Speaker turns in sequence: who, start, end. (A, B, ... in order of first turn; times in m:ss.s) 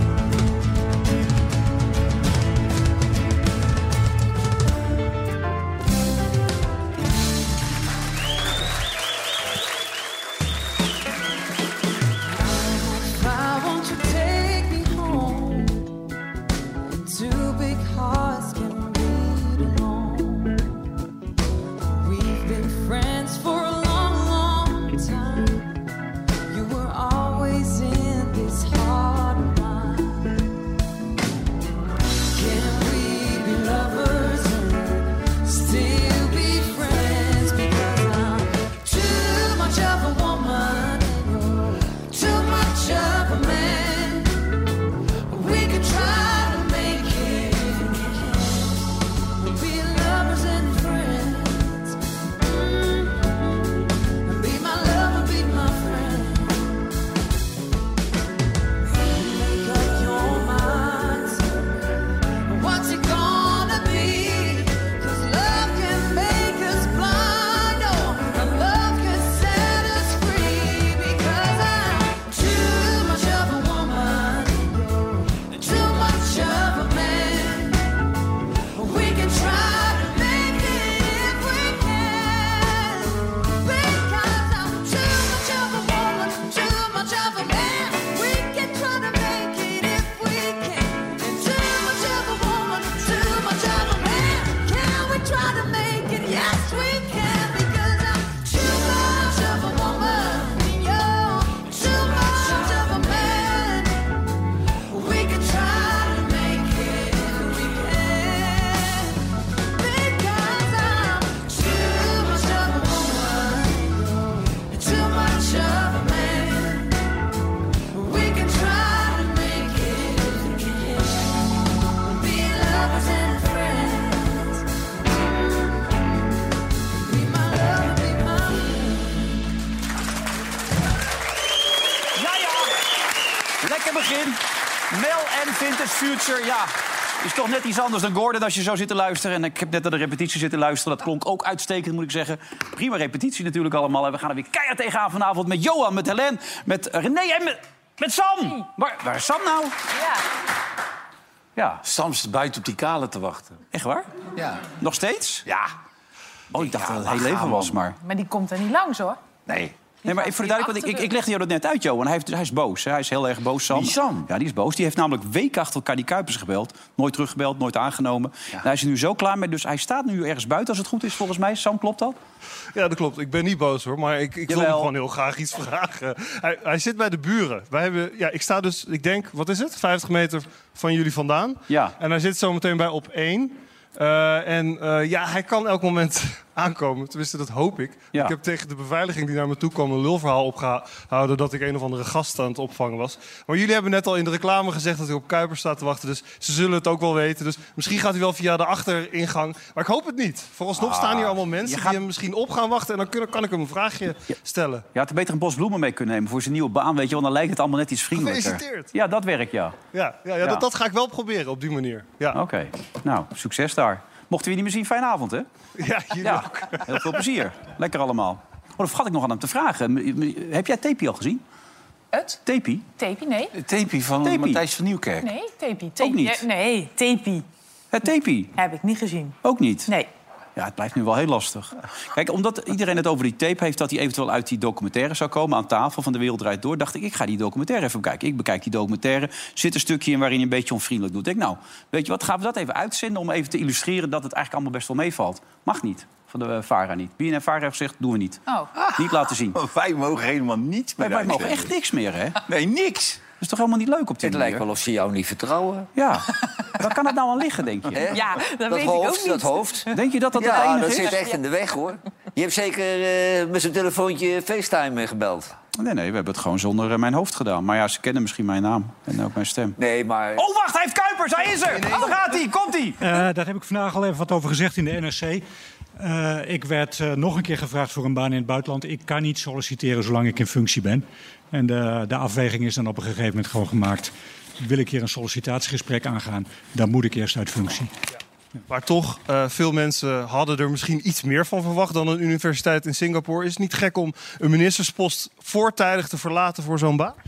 0:12.4-0:15.9 A
0:17.0-0:20.6 A
0:22.0-0:25.7 A
0:26.5-0:30.4 A
0:32.3-0:44.5 A
0:45.3-0:53.3 A
0:54.2-0:56.8 A
0:59.2-1:01.6 A
1:02.5-1:18.0 A
1:18.7-1:44.1 A
1:44.9-1:49.2 A
1:49.7-1:57.0 A
1:57.9-2:04.7 A
2:07.0-2:09.4 A
2:12.2-2:12.7 B
2:13.6-2:29.7 B
2:29.9-2:30.2 C
2:31.6-2:31.8 B
2:31.8-2:33.6 D
2:33.7-2:34.1 B
2:34.4-2:34.6 D
2:34.8-2:35.4 B
2:35.4-2:35.7 D
2:36.5-2:37.8 D
2:36.5-2:38.0 B
2:38.0-2:39.2 C
2:39.5-2:39.7 D
2:40.0-2:41.1 C
2:40.0-2:52.2 B
2:43.7-2:44.3 D
2:52.7-3:24.9 E
2:54.5-2:54.9 B
3:01.7-3:01.9 B
3:20.8-3:22.0 B
3:24.9-3:29.8 B
3:28.1-3:28.9 E
3:29.9-3:32.4 E
3:32.3-3:35.5 B
3:35.8-3:37.2 E
3:36.2-3:41.4 B
3:42.1-3:42.4 C
3:42.4-3:42.8 B
3:43.0-3:43.5 C
3:43.5-3:45.3 D
3:44.2-3:44.6 B
3:45.2-3:47.4 C
3:46.0-3:46.4 B
3:47.9-3:48.5 B
3:48.5-3:50.1 C
3:49.4-3:49.9 B
3:50.6-4:08.4 B
4:08.8-4:11.7 D
4:09.0-4:09.6 B
4:11.0-4:12.4 B
4:12.4-4:13.3 D
4:13.4-4:14.6 B
4:14.2-4:15.9 F
4:16.0-4:18.1 B
4:17.9-4:25.5 F
4:18.1-4:21.4 C
4:19.9-4:21.1 B
4:25.7-4:29.8 B
4:29.8-4:30.4 F
4:30.4-4:33.0 B
4:33.0-4:35.4 G
4:36.0-4:47.9 G
4:48.7-4:57.2 E